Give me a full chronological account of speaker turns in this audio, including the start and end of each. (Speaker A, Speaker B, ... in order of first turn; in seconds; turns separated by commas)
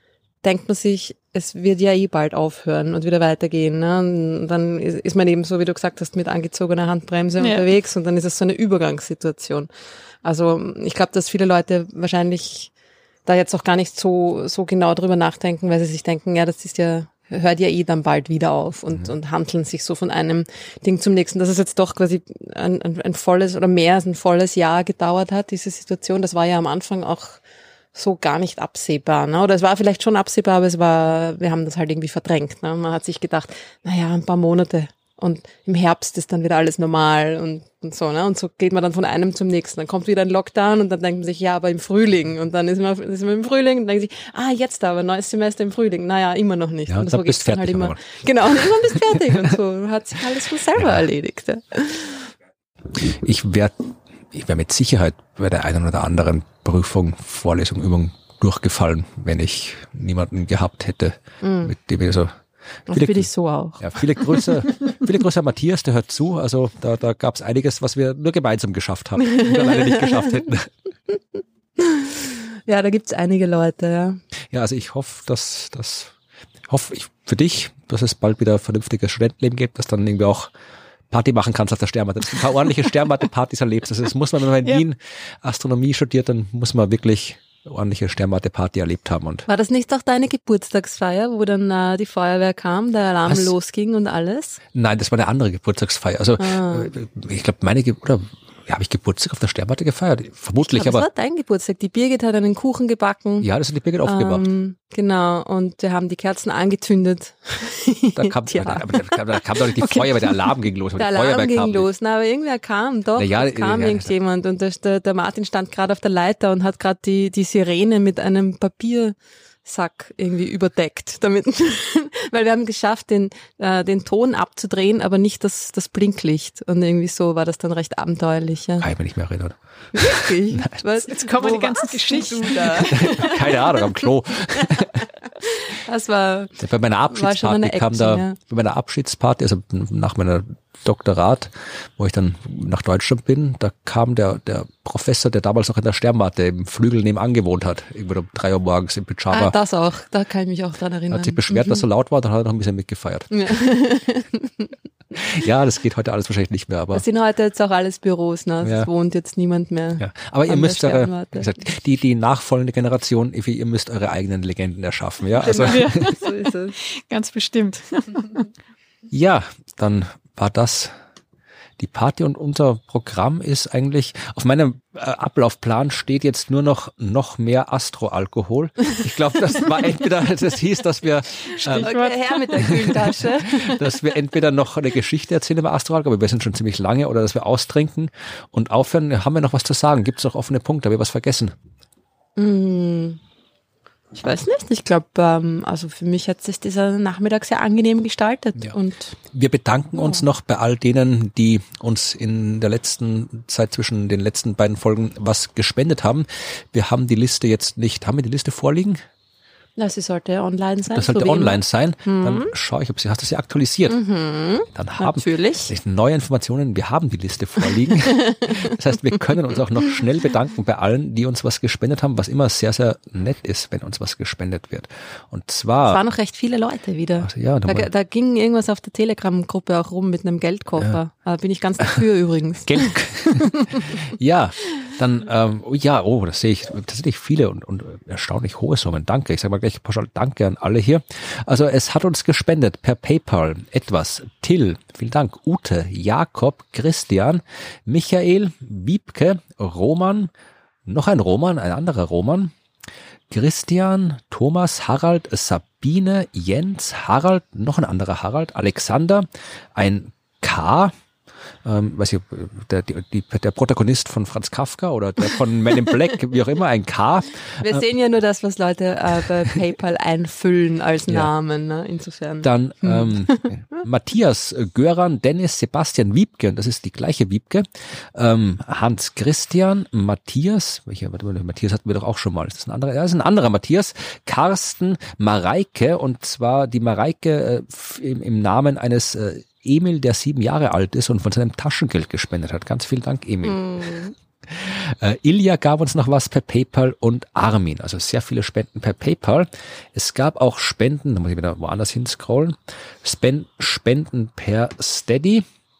Speaker A: 0.4-9.7, Speaker B: 7.4-7.7, Speaker A: 10.2-12.7, Speaker A: 13.2-27.4, Speaker A: 27.9-52.3, Speaker C: 46.9-49.4, Speaker C: 50.8-51.0, Speaker C: 52.9-63.3, Speaker A: 61.4-61.7, Speaker A: 62.9-64.8, Speaker C: 63.8-70.7, Speaker A: 69.3-70.3, Speaker A: 71.8-74.2, Speaker C: 74.5-76.1, Speaker C: 76.7-80.5, Speaker C: 81.1-89.5, Speaker A: 89.5-94.6, Speaker C: 93.3-93.5, Speaker C: 94.7-101.0, Speaker A: 96.4-96.9, Speaker A: 100.6-103.5, Speaker C: 103.4-104.4, Speaker A: 104.0-110.3, Speaker C: 108.2-111.9, Speaker A: 111.0-128.9, Speaker C: 113.2-114.1, Speaker C: 128.8-130.8, Speaker A: 129.9-134.0, Speaker B: 131.1-133.1, Speaker C: 132.9-135.1, Speaker A: 134.6-138.4, Speaker C: 136.6-149.5, Speaker A: 149.3-151.8, Speaker C: 151.1-153.5, Speaker A: 153.3-154.7, Speaker C: 155.1-157.0, Speaker A: 156.9-161.5, Speaker C: 158.6-158.9, Speaker C: 160.0-166.1, Speaker B: 165.4-166.3, Speaker A: 165.4-166.8, Speaker B: 166.9-168.4, Speaker C: 169.1-170.9, Speaker C: 171.8-181.9, Speaker B: 181.6-182.9, Speaker A: 181.7-184.1, Speaker C: 182.6-191.5, Speaker A: 192.4-193.2, Speaker A: 194.1-199.2, Speaker C: 199.3-209.0, Speaker A: 200.0-200.2, Speaker A: 209.8-212.5, Speaker C: 210.9-214.0, Speaker A: 213.9-215.7, Speaker C: 214.7-226.0, Speaker A: 218.1-218.7, Speaker A: 225.9-233.8, Speaker C: 227.2-227.9, Speaker C: 232.7-250.3, Speaker C: 250.8-252.5, Speaker C: 253.3-260.9, Speaker C: 261.6-267.9, Speaker A: 267.6-273.5, Speaker C: 272.4-293.6, Speaker A: 293.4-294.1, Speaker C: 294.5-305.4